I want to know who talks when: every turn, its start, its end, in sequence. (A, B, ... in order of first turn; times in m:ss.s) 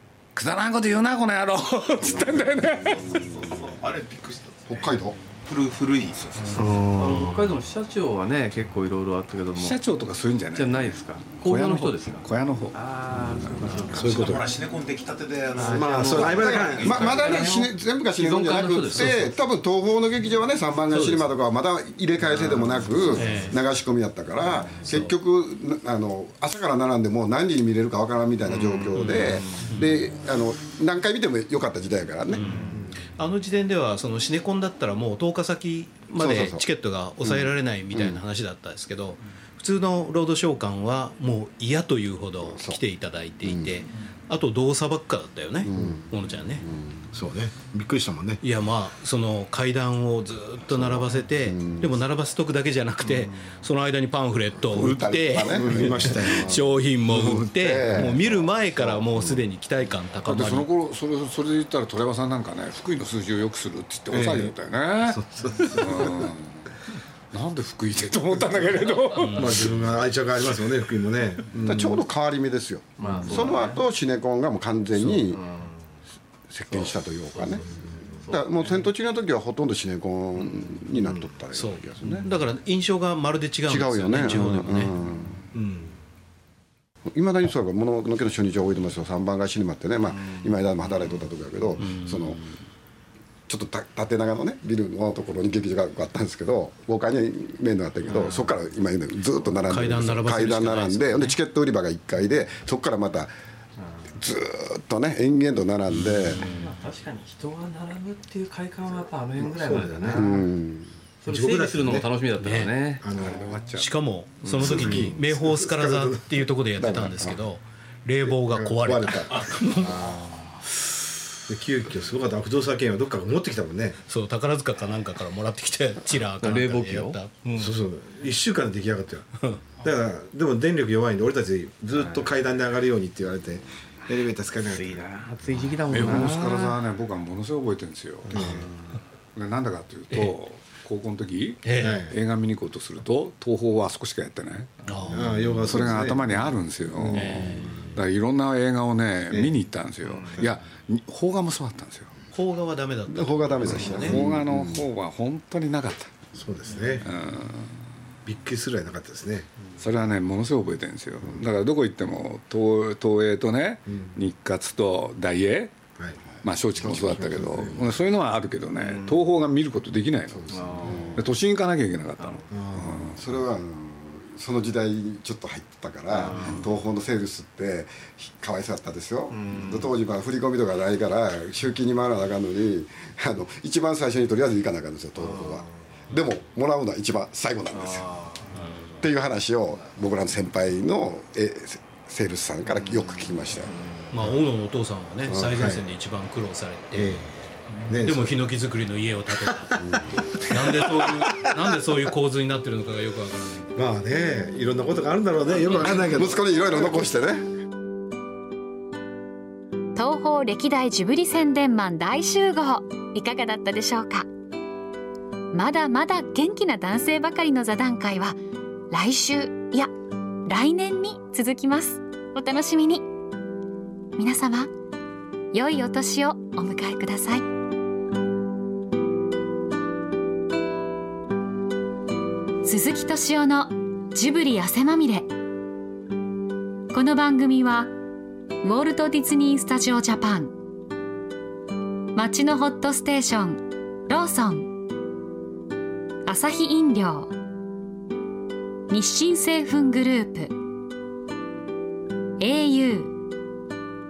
0:00.4-0:03.1 A
0:02.0-0:03.6 B
0:03.0-0:06.3 C
0:04.7-0:05.2 B
0:06.2-0:06.7 A
0:06.5-0:07.6 D
0:07.0-0:09.8 E
0:09.5-0:10.8 A
0:10.5-0:14.6 E
0:11.4-0:12.8 A
0:13.8-0:14.5 D
0:13.9-0:17.7 C
0:15.6-0:19.4 E
0:15.6-0:17.4 D
0:16.2-0:32.7 B
0:20.9-0:21.3 F
0:22.4-0:23.4 E
0:23.1-0:23.6 F
0:24.8-0:25.1 F
0:28.5-0:29.6 E
0:29.7-0:30.0 F
0:32.3-0:46.7 F
0:36.2-0:36.6 B
0:37.2-0:38.2 B
0:42.4-0:42.8 B
0:43.4-0:43.8 B
0:45.6-0:47.1 B
0:47.1-0:48.4 D
0:48.4-1:00.7 F
0:51.5-0:51.9 B
0:54.7-0:59.5 B
0:55.5-0:58.2 D
1:00.2-1:06.6 A
1:04.1-1:06.3 D
1:07.3-1:09.7 A
1:09.2-1:09.5 F
1:09.3-1:12.0 D
1:11.6-1:15.4 B
1:13.0-1:13.8 E
1:15.0-1:15.2 D
1:15.3-1:15.8 E
1:16.5-1:17.6 B
1:16.7-1:18.8 E
1:18.3-1:22.3 B
1:21.5-1:24.9 F
1:23.7-1:25.4 B
1:25.6-1:25.9 D
1:27.1-1:32.5 B
1:31.8-1:32.4 F
1:33.5-1:43.3 B
1:38.1-1:38.5 E
1:39.7-1:41.4 F
1:44.2-1:46.5 B
1:46.0-1:50.3 E
1:49.4-1:50.4 D
1:50.1-1:50.9 B
1:51.2-1:53.0 E
1:51.3-1:52.1 D
1:52.4-1:52.8 F
1:53.0-1:53.5 D
1:53.2-1:53.9 A
1:53.8-2:00.1 F
1:54.6-1:56.2 D
1:54.6-1:54.9 B
1:56.8-1:57.2 D
1:57.0-1:57.4 B
1:58.5-2:00.4 D
2:01.5-2:04.0 D
2:04.1-2:07.8 F
2:06.4-2:07.2 E
2:07.6-2:15.1 D
2:11.9-2:12.3 E
2:14.6-2:16.8 E
2:15.9-2:18.6 A
2:18.3-2:18.7 D
2:19.4-2:24.7 A
2:21.6-2:22.0 F
2:21.8-2:22.1 D
2:24.9-2:25.4 F
2:25.1-2:27.6 D
2:25.7-2:32.1 A
2:27.2-2:27.7 F
2:32.3-2:34.3 F
2:33.1-2:34.8 B
2:33.9-2:34.2 D
2:34.0-2:36.1 A
2:36.4-2:37.1 D
2:37.0-2:37.7 A
2:38.2-2:39.5 D
2:39.8-2:45.8 A
2:43.9-2:44.2 D
2:46.4-2:50.6 A
2:46.8-2:47.8 B
2:47.0-2:47.5 D
2:48.8-2:49.3 E
2:50.4-2:51.2 B
2:50.5-2:51.2 E
2:51.2-2:53.2 A
2:52.2-2:52.5 E
2:52.5-2:53.1 D
2:53.1-3:08.1 B
2:56.1-2:56.7 E
2:59.3-2:59.9 E
3:05.4-3:05.6 E
3:07.7-3:08.8 E
3:09.0-3:13.7 B
3:13.6-3:14.1 E
3:14.1-3:17.2 F
3:15.3-3:15.7 B
3:17.0-3:17.3 D
3:17.9-3:18.4 D
3:18.0-3:23.7 F
3:23.8-3:26.7 D
3:25.7-3:27.5 B
3:30.0-3:34.3 G
3:35.5-3:38.4 G
3:38.9-3:39.9 G
3:40.5-3:43.1 G
3:44.2-3:44.7 G
3:45.5-3:47.5 G
3:52.6-3:55.3 G
3:56.9-3:57.9 G
3:58.6-4:00.5 G
4:02.1-4:04.8 G
4:06.3-4:07.3 G
4:08.9-4:10.5 G
4:12.4-4:13.2 G